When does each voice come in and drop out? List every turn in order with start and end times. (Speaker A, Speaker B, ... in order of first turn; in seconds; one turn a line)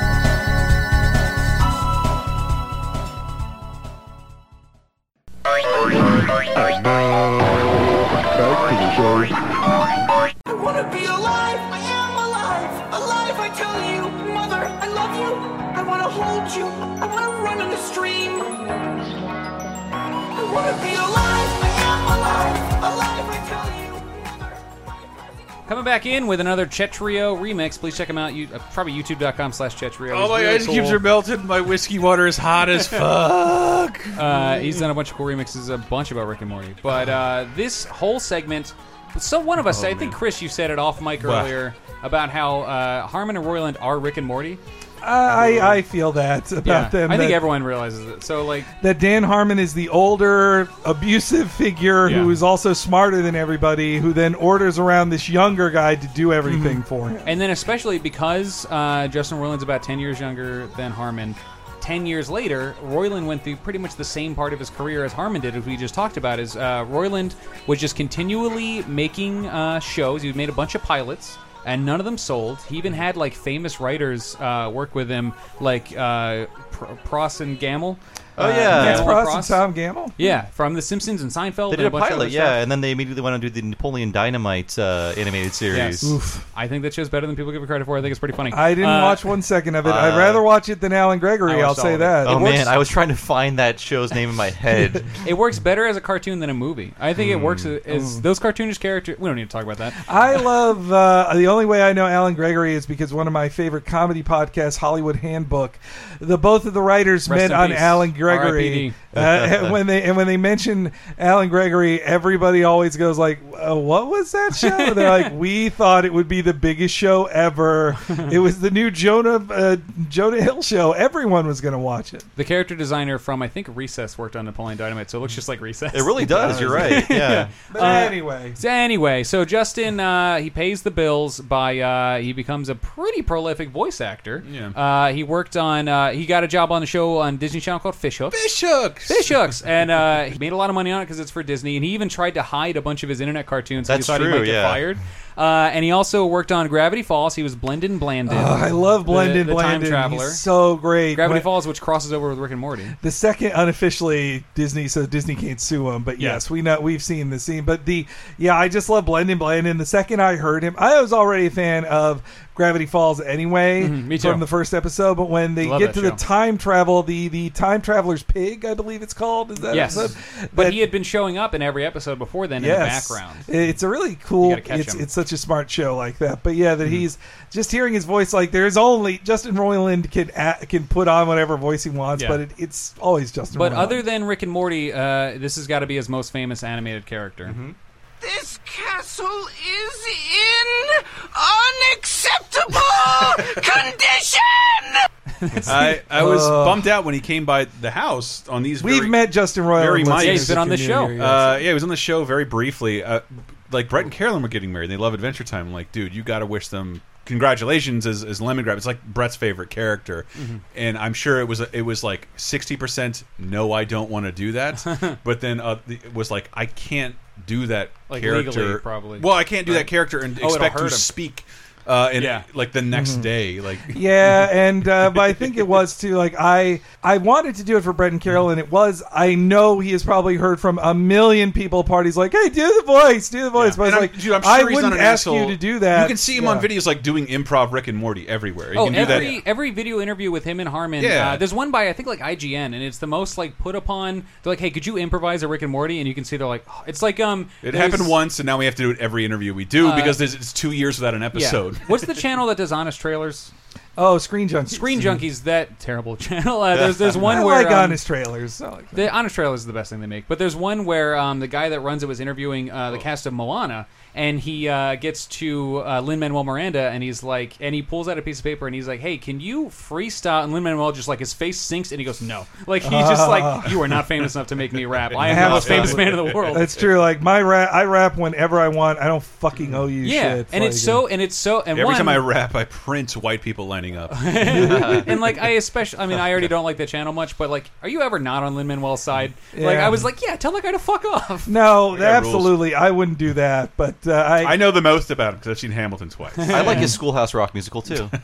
Speaker A: 10.5-18.7
Speaker A: 20.4-24.6
Speaker B: 25.7-31.0
Speaker C: 30.1-34.2
Speaker B: 32.8-33.1
Speaker B: 34.1-44.6
Speaker C: 39.6-40.2
Speaker C: 41.2-41.5
Speaker D: 45.0-47.4
Speaker C: 45.4-45.8
Speaker B: 46.6-48.7
Speaker D: 48.8-57.3
Speaker B: 52.0-52.4
Speaker B: 57.2-79.6
Speaker E: 78.4-79.2
Speaker D: 78.7-80.2
Speaker B: 80.2-82.6
Speaker E: 81.7-86.2
Speaker B: 85.7-89.3
Speaker D: 86.0-86.5
Speaker D: 88.5-92.7
Speaker E: 89.8-90.5
Speaker B: 91.5-92.6
Speaker E: 92.2-95.1
Speaker B: 95.2-100.0
Speaker E: 97.2-97.7
Speaker D: 97.9-98.2
Speaker D: 100.0-122.3
Speaker B: 107.3-109.0
Speaker E: 109.2-109.8
Speaker B: 114.5-115.4
Speaker B: 122.4-138.4
Speaker E: 125.9-127.5
Speaker C: 126.4-127.0
Speaker D: 127.7-128.6
Speaker C: 134.4-134.8
Speaker C: 138.3-139.3
Speaker B: 139.1-150.4
Speaker E: 143.8-144.9
Speaker D: 148.3-151.5
Speaker B: 151.1-153.0
Speaker D: 153.0-170.8
Speaker B: 156.2-156.4
Speaker B: 163.8-164.4
Speaker B: 165.6-166.2
Speaker B: 169.7-173.5
Speaker D: 172.6-184.0
Speaker B: 174.4-175.1
Speaker B: 182.2-182.4
Speaker B: 183.5-187.6
Speaker E: 187.5-187.7
Speaker A: 188.2-195.0
Speaker B: 195.4-195.8
Speaker C: 195.6-199.2
Speaker D: 195.7-196.9
Speaker D: 198.8-201.7
Speaker C: 199.8-200.6
Speaker B: 200.1-201.2
Speaker C: 201.2-224.4
Speaker B: 210.4-210.6
Speaker B: 214.8-215.2
Speaker B: 218.1-221.1
Speaker B: 222.2-222.4
Speaker D: 222.9-223.3
Speaker D: 223.9-236.7
Speaker C: 233.6-239.4
Speaker B: 238.8-248.2
Speaker D: 238.9-239.3
Speaker C: 241.0-241.4
Speaker C: 247.6-251.9
Speaker B: 249.8-250.2
Speaker B: 251.3-253.5
Speaker D: 254.0-255.2
Speaker B: 254.7-258.0
Speaker E: 256.7-257.2
Speaker D: 257.2-259.1
Speaker B: 258.9-276.8
Speaker D: 272.8-273.8
Speaker C: 275.1-276.5
Speaker D: 275.2-281.0
Speaker B: 280.0-282.3
Speaker C: 281.7-284.6
Speaker B: 284.1-291.7
Speaker D: 284.5-285.1
Speaker D: 289.5-290.1
Speaker D: 291.5-294.7
Speaker C: 291.9-292.6
Speaker C: 294.4-296.8
Speaker B: 296.4-296.9
Speaker E: 296.5-298.1